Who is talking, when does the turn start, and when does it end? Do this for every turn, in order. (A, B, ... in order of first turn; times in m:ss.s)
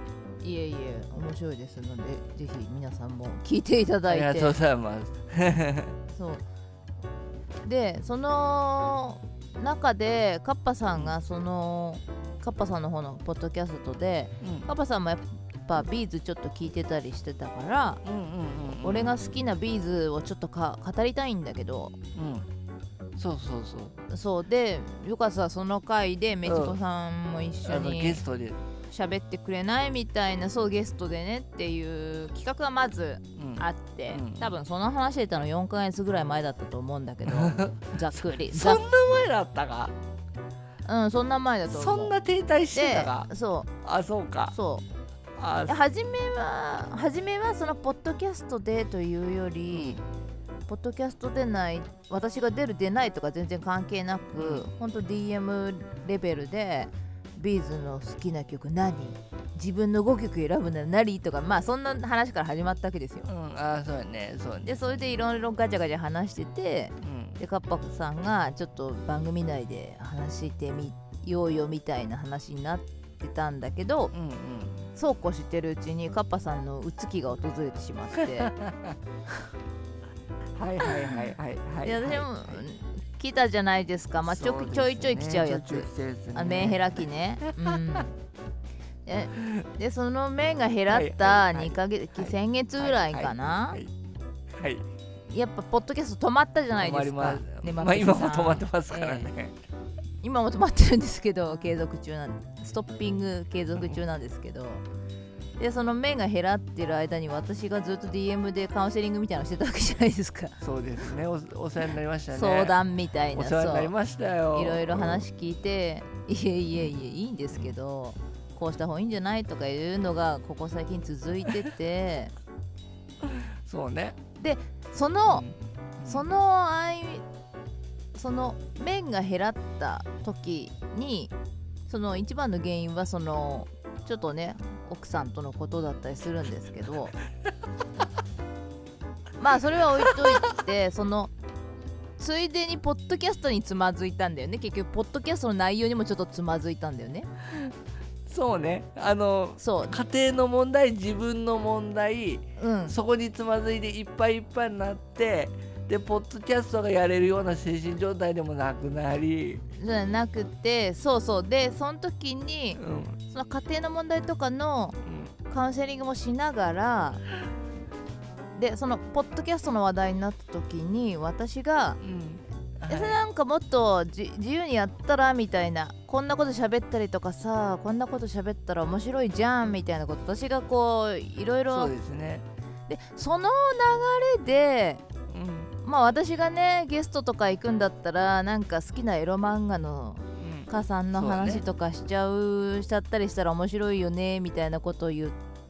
0:00.4-0:04.6 A
0:04.1-0:06.0 B
0:06.1-0:06.4 A
0:07.6-0:18.0 A
0:14.4-0:14.7 B
0:18.0-0:19.2 B
0:18.8-0:22.0 A
0:22.2-0:22.5 B
0:23.2-0:24.0 B
0:24.1-0:28.2 A
0:26.4-0:26.8 B
0:27.6-0:28.6 B
0:28.9-0:38.8 A
0:33.4-0:34.5 B
0:37.2-0:40.0 B
0:40.8-0:42.1 A
0:41.7-0:43.3 B
0:42.7-0:43.7 A
0:43.8-0:44.6 B
0:44.5-0:44.9 A
0:45.4-0:45.8 B
0:45.7-0:50.0 A
0:49.7-0:50.0 B
0:50.7-1:03.3 A
0:54.4-0:54.7 B
1:03.2-1:05.0 B
1:04.6-1:14.1 A
1:07.0-1:07.4 B
1:14.1-1:14.9 B
1:15.0-1:18.5 A
1:18.2-1:19.0 B
1:20.6-1:22.6 B
1:20.8-1:21.2 A
1:21.8-1:28.1 A
1:24.2-1:28.0 B
1:29.0-1:33.8 A
1:29.4-1:29.7 B
1:30.9-1:33.9 B
1:34.6-1:34.9 B
1:35.3-1:39.3 A
1:36.8-1:39.6 B
1:40.2-1:44.8 A
1:45.6-1:50.6 A
1:50.6-1:52.8 B
1:52.3-1:53.9 A
1:53.3-1:55.3 B
1:54.5-2:02.3 A
2:03.3-2:04.2 B
2:04.4-2:05.4 A
2:05.3-2:06.3 B
2:06.1-2:07.2 A
2:08.2-2:11.3 A
2:11.9-2:17.2 A
2:19.4-2:21.3 A
2:20.1-2:20.6 B
2:22.2-2:27.3 A
2:28.3-2:39.6 B
2:29.6-2:30.0 A
2:32.6-2:33.0 A
2:39.7-2:45.0 A
2:42.8-2:43.2 B
2:45.0-2:45.3 B
2:45.5-2:47.2 A
2:48.6-2:52.0 A
2:52.0-2:53.2 B
2:52.9-3:01.9 A
3:01.7-3:02.5 B
3:02.9-3:05.0 A
3:05.3-3:05.7 B
3:05.8-3:15.4 A
3:10.4-3:11.6 B